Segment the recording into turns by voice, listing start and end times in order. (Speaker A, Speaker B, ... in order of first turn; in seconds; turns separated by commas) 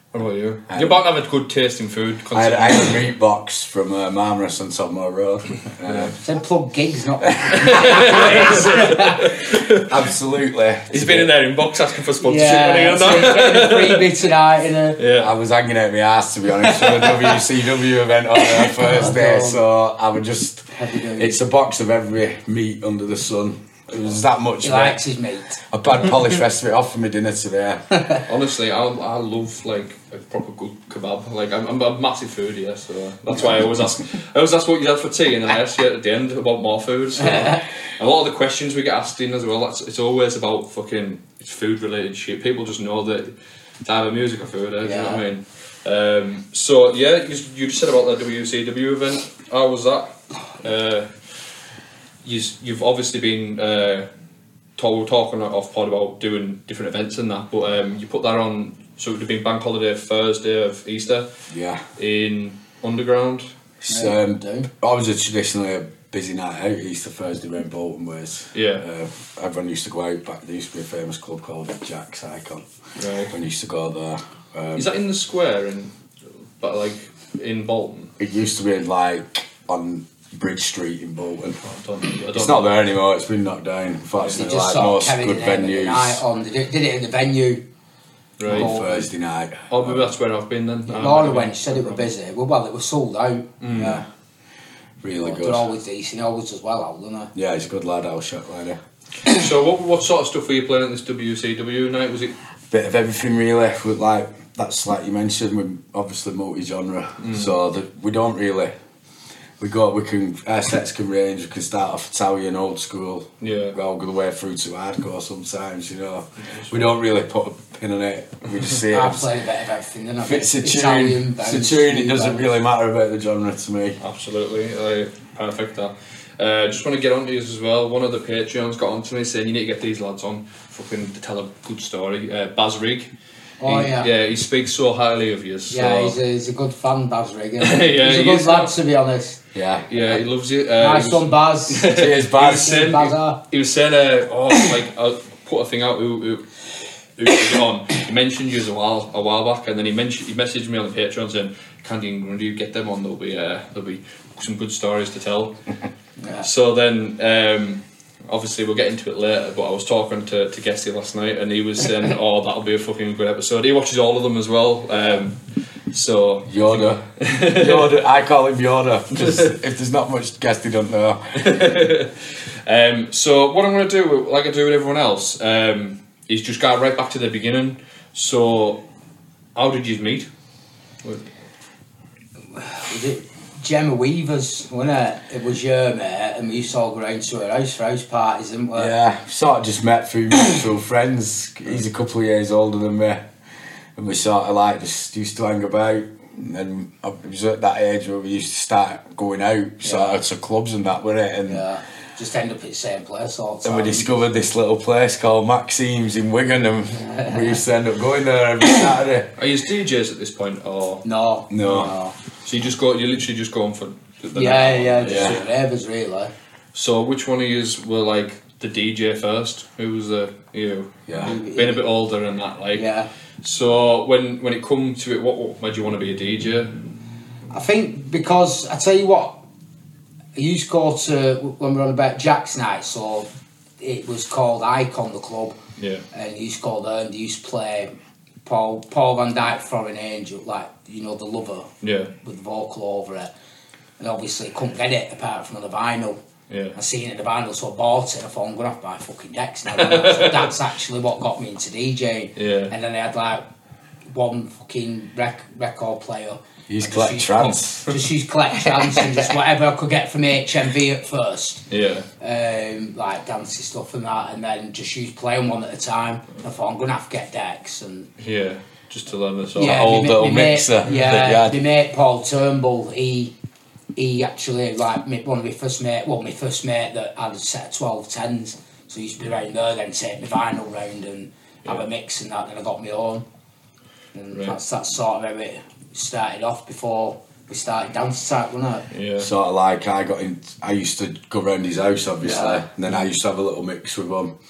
Speaker A: 0.1-3.1, Speaker B: 0.7-1.0, Speaker B: 2.3-6.2, Speaker A: 5.9-6.2, Speaker C: 6.2-9.3, Speaker B: 7.3-7.6, Speaker A: 7.5-10.0, Speaker B: 9.7-11.3, Speaker A: 10.9-14.2, Speaker C: 12.2-15.0, Speaker A: 15.0-15.3, Speaker B: 15.2-25.0, Speaker A: 16.8-17.3, Speaker C: 18.6-19.6, Speaker C: 20.7-21.4, Speaker C: 24.6-25.6, Speaker B: 25.7-27.8, Speaker A: 28.3-51.1, Speaker C: 44.8-45.2, Speaker A: 52.2-54.1, Speaker A: 54.8-61.3, Speaker B: 61.5-61.8, Speaker A: 62.0-63.5, Speaker B: 63.8-72.7, Speaker C: 63.9-64.7, Speaker A: 68.5-68.8, Speaker A: 73.0-73.3, Speaker B: 73.3-74.9, Speaker A: 74.8-75.9, Speaker A: 76.6-78.1, Speaker B: 78.2-81.6, Speaker A: 81.6-82.8, Speaker B: 82.3-86.2, Speaker C: 84.3-87.6, Speaker A: 88.4-88.7, Speaker C: 88.5-89.0, Speaker B: 88.5-90.1, Speaker A: 89.7-92.1, Speaker C: 90.9-94.0, Speaker A: 93.6-94.0, Speaker B: 93.7-94.0, Speaker B: 95.0-95.7, Speaker C: 95.2-97.3, Speaker B: 97.3-98.8, Speaker A: 99.3-102.3, Speaker B: 102.7-108.7, Speaker A: 107.2-107.5, Speaker B: 109.6-119.3, Speaker A: 113.4-113.8, Speaker A: 116.5-116.9, Speaker C: 118.9-122.5, Speaker B: 120.2-124.0, Speaker A: 124.0-133.1, Speaker C: 133.6-134.1, Speaker A: 133.7-136.2, Speaker C: 135.7-139.4, Speaker A: 137.6-138.7, Speaker B: 139.5-139.9, Speaker A: 139.9-146.4, Speaker C: 140.8-143.4, Speaker B: 141.8-142.8, Speaker A: 147.2-155.6, Speaker C: 156.2-156.5, Speaker A: 156.4-165.4, Speaker C: 164.9-165.2, Speaker A: 165.9-167.9, Speaker B: 166.5-171.6, Speaker A: 169.2-169.5, Speaker A: 171.4-178.8, Speaker A: 179.6-180.3, Speaker C: 182.6-188.9, Speaker B: 188.8-193.3, Speaker B: 194.0-201.6, Speaker C: 199.8-200.2, Speaker C: 201.5-204.2, Speaker B: 203.6-209.3, Speaker C: 206.9-207.6, Speaker A: 209.4-211.0, Speaker C: 211.0-212.2, Speaker B: 211.5-211.9, Speaker A: 212.4-215.4, Speaker C: 214.3-216.3, Speaker B: 215.0-215.4, Speaker A: 216.7-222.9, Speaker B: 221.1-221.3, Speaker C: 221.2-221.8, Speaker C: 222.8-223.1, Speaker A: 223.4-226.8, Speaker C: 227.5-229.4, Speaker C: 230.3-233.3, Speaker C: 233.8-235.6, Speaker A: 235.8-236.1, Speaker C: 236.1-237.9, Speaker C: 238.4-243.3, Speaker A: 241.8-242.1, Speaker C: 244.0-246.2, Speaker A: 246.5-246.8, Speaker C: 246.8-253.4, Speaker A: 249.7-250.5, Speaker A: 252.4-252.7, Speaker C: 254.1-261.6, Speaker B: 256.7-258.0, Speaker A: 261.7-262.1, Speaker C: 262.2-268.1, Speaker A: 268.2-269.9, Speaker C: 269.6-273.3, Speaker B: 269.6-271.6, Speaker C: 274.0-283.2, Speaker C: 284.1-288.9, Speaker A: 288.9-289.3, Speaker B: 289.2-294.3, Speaker C: 292.2-292.6